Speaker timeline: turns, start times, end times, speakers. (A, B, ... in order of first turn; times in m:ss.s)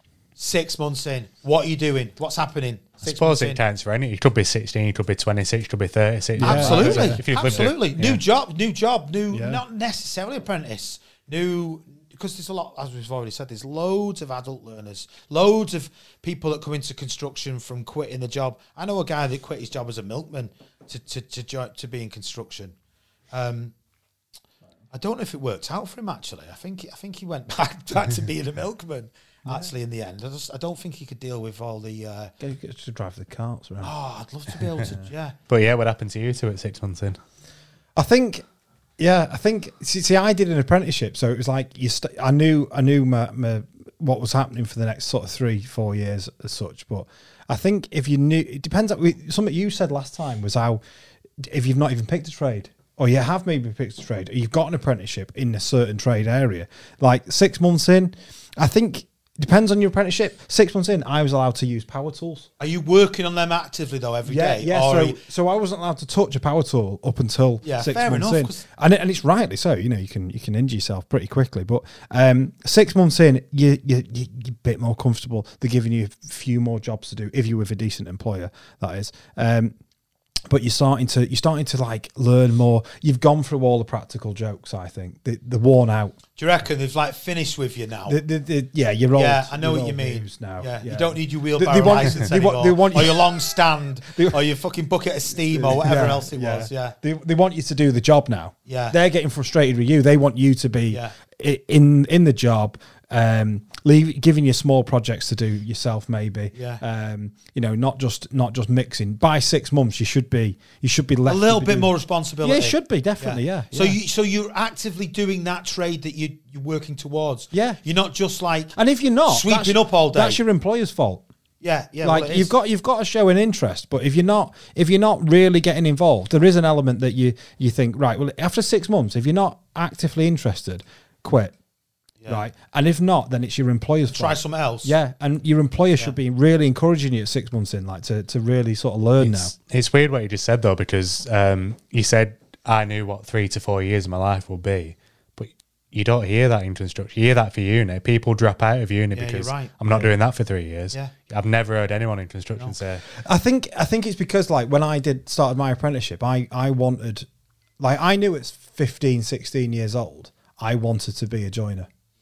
0:00.4-0:03.6 A
0:03.0-0:08.2 B
0:06.4-0:07.7 C
0:06.4-0:22.7 A
0:09.3-0:09.6 C
0:23.3-0:23.7 A
0:24.9-0:32.3 A
0:32.4-0:33.9 C
0:33.8-0:35.3 A
0:35.5-0:37.2 B
0:38.0-0:38.4 C
0:39.0-0:50.8 C
0:51.4-1:02.5 C
1:02.6-1:05.2 A
1:04.2-1:19.7 C
1:07.6-1:08.6 A
1:20.5-1:26.2 C
1:26.4-1:28.2 A
1:28.1-1:33.5 C
1:29.1-1:37.0 A
1:34.1-1:34.4 C
1:35.5-1:54.0 C
1:38.7-1:39.0 A
1:46.5-1:46.8 A
1:51.3-2:00.4 A
1:57.5-1:57.8 C
1:58.7-2:01.2 C
2:01.6-2:02.5 A
2:02.0-2:11.5 C
2:12.3-2:19.5 C
2:14.1-2:14.9 A
2:19.2-2:33.0 B
2:29.1-2:29.7 A
2:33.1-2:37.3 C
2:37.8-2:41.9 C